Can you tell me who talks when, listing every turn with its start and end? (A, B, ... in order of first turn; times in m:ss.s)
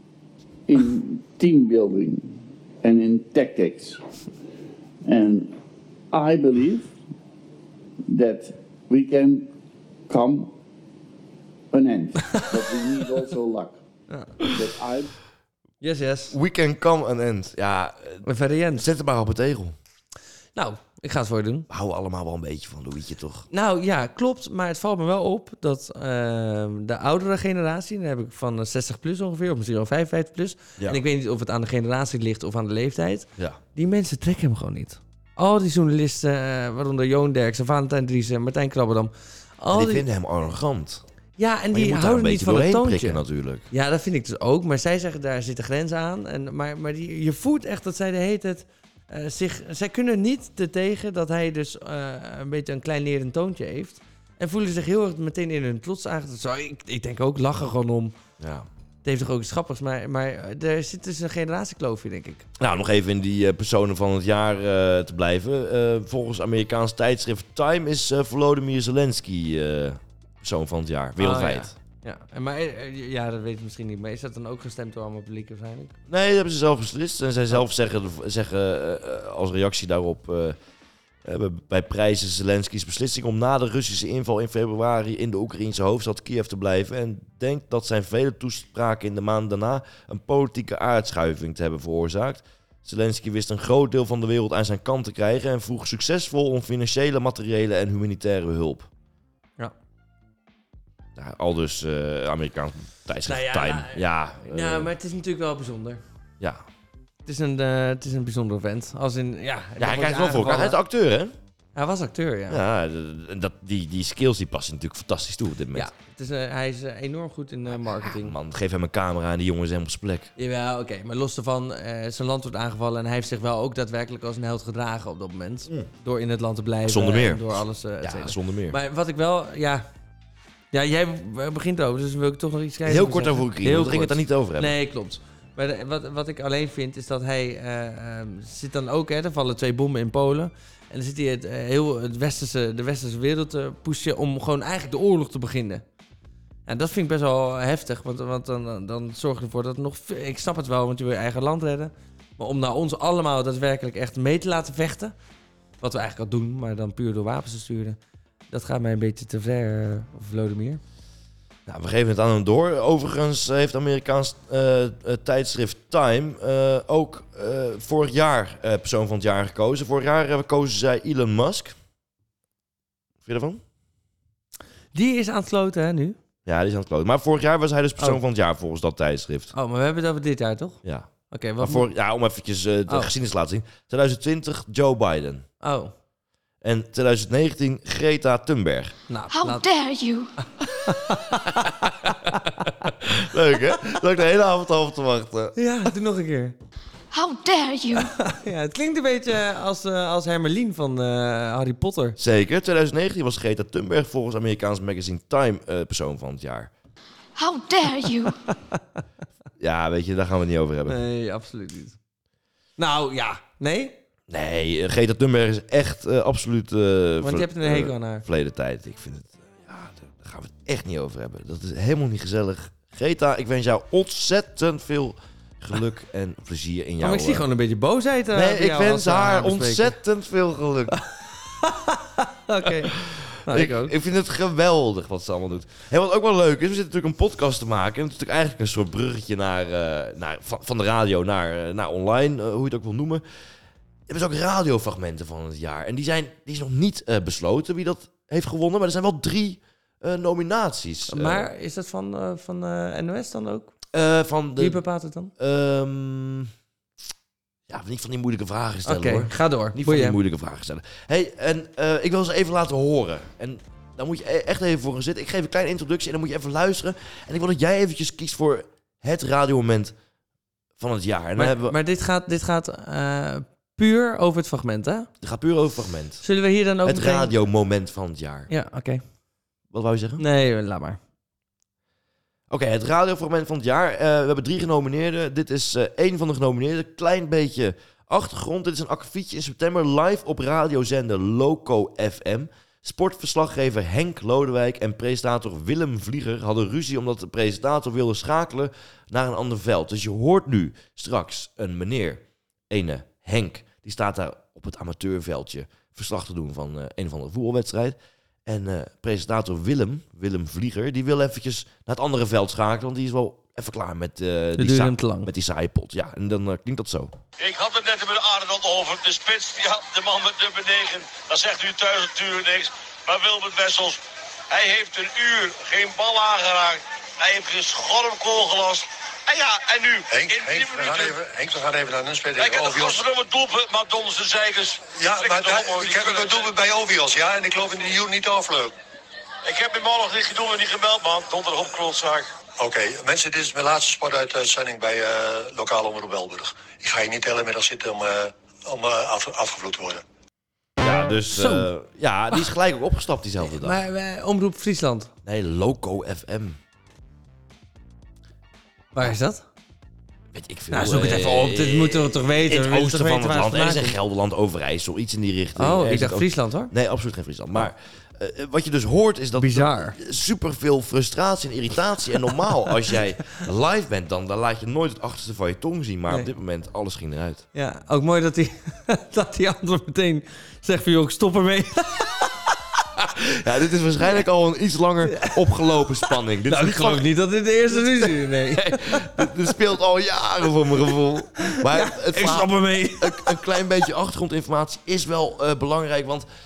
0:00.7-0:04.0 A
0:05.0-0:05.6 A
0:06.1-0:06.9 A
0:08.1-0:09.5 A
0:10.1-0:10.5 A
0:11.7-0:13.8 A
0:14.5-0:15.1 A
0:15.8-0:16.3 B
0:16.3-0:18.2 C
0:18.2-0:18.8 B
0:18.8-0:19.7 C
0:20.5-0:21.7 B
0:21.7-0:23.5 C
0:23.5-0:40.0 B
0:39.7-0:41.0 C
0:41.4-0:58.1 B
0:41.7-0:43.6 C
0:58.4-0:58.7 C
0:59.0-1:02.4 B
1:02.6-1:11.7 C
1:11.2-1:15.9 B
1:16.1-1:20.6 C
1:21.2-1:38.9 C
1:41.2-1:44.9 C
1:43.3-1:46.0 B
1:47.2-1:50.8 B
1:49.8-1:51.3 C
1:51.7-1:52.6 B
1:52.5-1:55.9 C
1:55.7-1:58.3 B
1:57.8-2:00.3 C
2:00.4-2:09.8 B
2:06.8-2:08.8 C
2:10.7-2:25.8 B
2:12.8-2:14.7 C
2:26.7-2:35.1 B
2:35.8-2:38.0 B
2:38.5-2:40.8 B
2:41.6-2:51.7 C
2:53.2-2:53.6 C
2:54.9-2:56.2 B
2:56.4-2:59.5 C
2:59.5-3:00.8 B
3:00.8-3:05.4 C
3:01.3-3:01.9 B
3:05.6-3:05.9 B
3:06.6-3:08.9 C
3:09.1-3:09.6 B
3:09.3-3:10.3 D
3:10.8-3:12.7 B
3:13.0-3:15.6 C
3:15.6-3:16.6 B
3:17.1-3:18.1 D
3:18.0-3:22.2 B
3:22.2-3:26.7 C
3:27.4-3:28.3 D
3:29.6-3:31.0 C
3:30.9-3:32.0 B
3:32.8-3:34.0 B
3:34.3-3:47.4 C
3:37.2-3:38.2 B
3:47.0-3:49.9 B
3:48.3-3:51.0 C
3:51.6-3:52.9 B
3:52.8-4:03.2 C
3:53.4-3:53.9 B
4:04.1-4:11.5 C
4:11.1-4:13.7 B
4:13.9-4:14.8 C
4:14.6-4:15.3 B
4:15.4-4:16.5 C
4:17.7-4:29.9 C
4:18.8-4:20.2 B
4:30.8-4:31.8 C
4:31.4-4:35.1 B
4:35.2-4:36.2 C
4:36.2-4:37.3 B
4:36.8-4:38.5 C
4:38.5-4:39.0 B
4:39.7-4:40.2 C
4:40.2-4:41.0 B
4:42.5-5:17.1 C
5:14.6-5:15.3 B
5:17.4-5:24.0 E
5:24.5-5:31.1 E
5:30.1-5:33.0 F
5:32.4-5:36.5 E
5:35.0-5:38.7 F
5:39.5-5:42.2 E
5:42.6-5:50.0 F
5:50.8-5:53.8 C
5:51.3-5:51.7 B
5:53.4-5:55.1 B
5:55.2-5:56.6 C
5:58.9-5:59.4 B
6:00.3-6:17.4 C
6:00.7-6:04.0 B
6:05.6-6:06.7 B
6:09.4-6:10.0 B
6:17.5-6:22.3 B
6:23.0-6:27.1 C
6:25.1-6:25.4 B
6:26.5-6:29.3 B
6:27.7-6:36.3 C
6:31.5-6:33.2 B